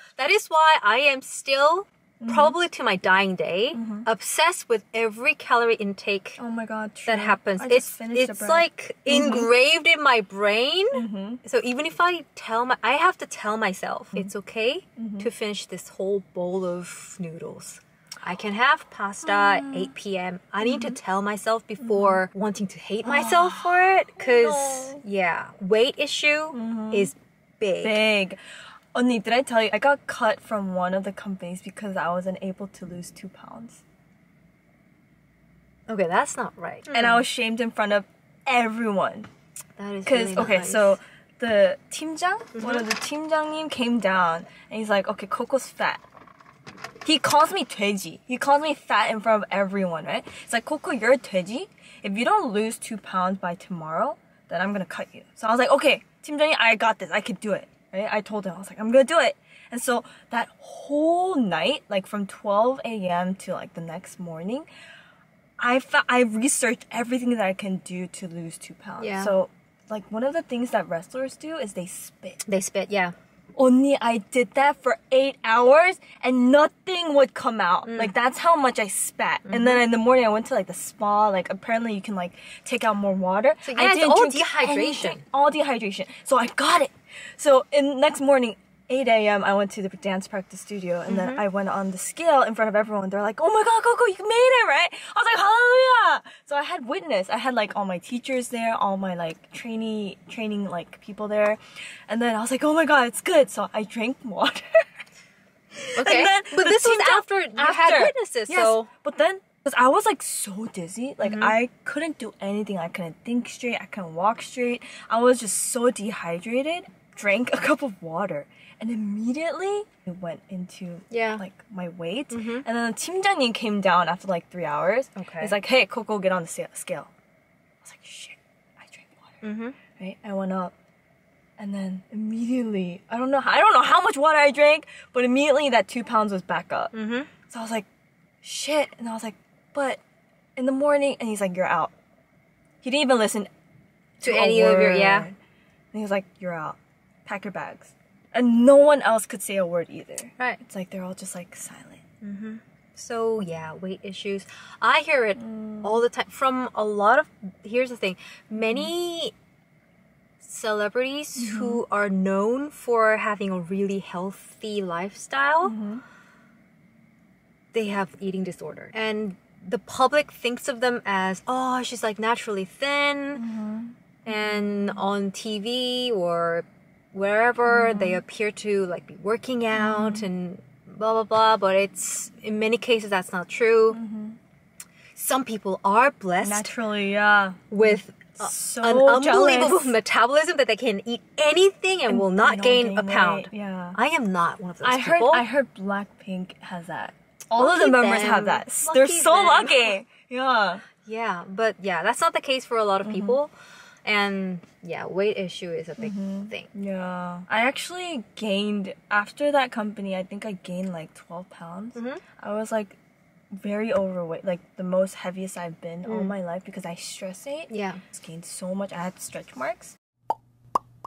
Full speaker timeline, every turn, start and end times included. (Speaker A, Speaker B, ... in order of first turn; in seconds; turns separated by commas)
Speaker A: 0.2-6.4, Speaker B: 2.2-2.6, Speaker B: 3.7-4.1, Speaker B: 6.4-9.5, Speaker A: 7.1-28.0, Speaker B: 10.9-11.4, Speaker B: 15.0-15.3, Speaker B: 19.2-19.9, Speaker B: 20.6-21.0, Speaker B: 21.8-22.2, Speaker B: 23.0-25.0, Speaker B: 26.5-27.1, Speaker B: 27.8-28.4, Speaker B: 28.9-33.8, Speaker A: 35.9-37.2, Speaker B: 36.9-39.3, Speaker A: 39.8-41.0, Speaker B: 40.1-46.0, Speaker A: 42.6-42.9, Speaker B: 47.0-64.7, Speaker B: 65.6-72.5, Speaker A: 69.0-69.3, Speaker A: 72.5-73.2, Speaker B: 73.6-104.8, Speaker A: 77.9-78.1, Speaker A: 79.5-79.8, Speaker A: 83.6-85.2, Speaker A: 91.1-91.4, Speaker B: 105.8-127.1, Speaker A: 106.0-108.9, Speaker A: 111.2-111.5, Speaker A: 121.1-121.4, Speaker A: 122.3-122.7, Speaker A: 125.2-125.5, Speaker B: 127.8-129.4, Speaker A: 129.4-129.8, Speaker B: 130.0-130.7, Speaker B: 131.6-136.9, Speaker A: 136.9-137.3, Speaker B: 137.5-137.9, Speaker B: 138.4-140.0, Speaker B: 140.6-141.9, Speaker B: 142.8-143.5, Speaker A: 144.2-145.3, Speaker B: 144.2-145.4, Speaker B: 145.9-152.0, Speaker A: 152.2-159.3, Speaker B: 155.4-156.0, Speaker B: 158.6-158.9, Speaker A: 160.4-165.8, Speaker B: 161.4-161.8, Speaker B: 165.6-166.0, Speaker A: 167.7-173.4, Speaker B: 173.4-175.0, Speaker A: 174.2-184.0, Speaker B: 177.7-178.2, Speaker B: 179.7-180.3, Speaker B: 183.9-184.4, Speaker A: 185.2-186.7, Speaker B: 186.4-189.9, Speaker A: 187.7-195.5, Speaker B: 192.1-194.0, Speaker B: 194.8-200.8, Speaker A: 197.6-199.9, Speaker A: 201.0-203.5, Speaker B: 203.0-203.4, Speaker A: 204.1-206.7, Speaker B: 206.0-213.0, Speaker A: 212.0-212.2, Speaker B: 213.5-220.0, Speaker A: 216.1-216.3, Speaker A: 217.7-218.0